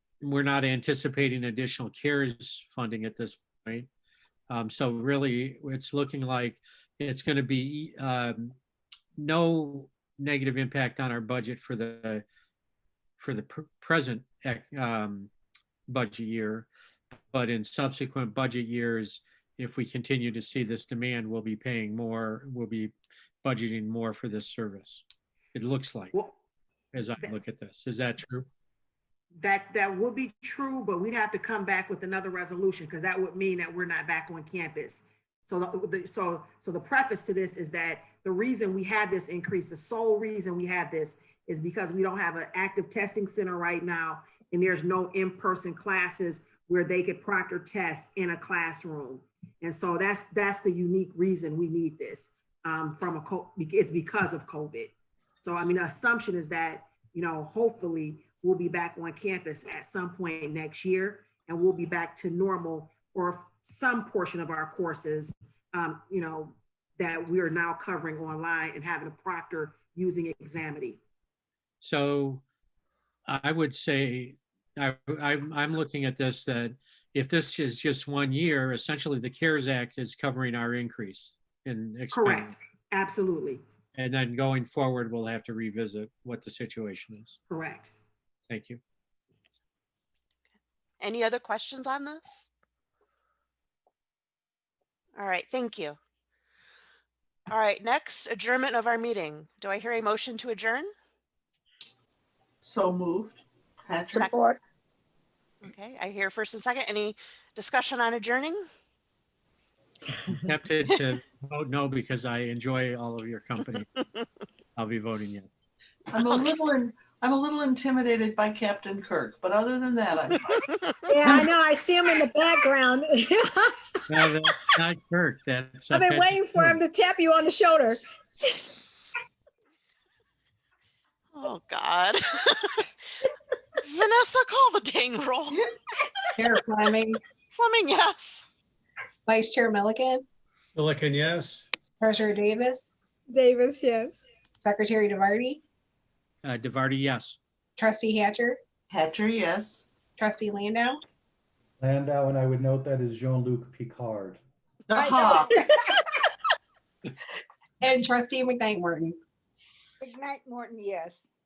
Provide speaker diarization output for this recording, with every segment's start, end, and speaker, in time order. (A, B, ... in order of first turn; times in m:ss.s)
0:00.2-0:03.9 A
0:04.5-0:08.6 A
0:09.2-0:12.2 A
0:13.2-0:15.3 A
0:15.9-0:16.7 A
0:17.3-0:26.1 A
0:26.9-0:28.5 A
0:29.4-1:11.0 B
1:11.8-1:12.4 A
1:13.3-1:22.5 A
1:22.1-1:23.6 B
1:23.9-1:27.4 A
1:27.5-1:27.9 B
1:28.5-1:28.8 A
1:31.0-1:32.5 C
1:35.2-1:36.0 C
1:37.5-1:40.9 C
1:42.6-1:44.3 D
1:44.1-1:44.4 C
1:44.1-1:44.5 E
1:45.6-1:48.6 C
1:50.3-1:53.9 A
1:54.8-1:55.5 A
1:56.1-2:00.6 D
1:56.2-1:56.6 C
2:01.1-2:04.0 F
2:04.1-2:06.8 A
2:05.9-2:08.7 F
2:11.3-2:12.9 C
2:13.8-2:15.6 C
2:16.4-2:17.2 E
2:17.5-2:18.5 C
2:19.3-2:20.2 E
2:20.8-2:21.6 A
2:22.0-2:22.9 E
2:23.3-2:24.3 F
2:24.6-2:25.6 E
2:26.4-2:27.4 A
2:27.8-2:28.6 E
2:28.9-2:29.9 D
2:30.2-2:31.0 E
2:31.8-2:34.4 G
2:34.9-2:35.5 D
2:34.9-2:36.0 E
2:37.8-2:39.2 E
2:40.0-2:41.2 E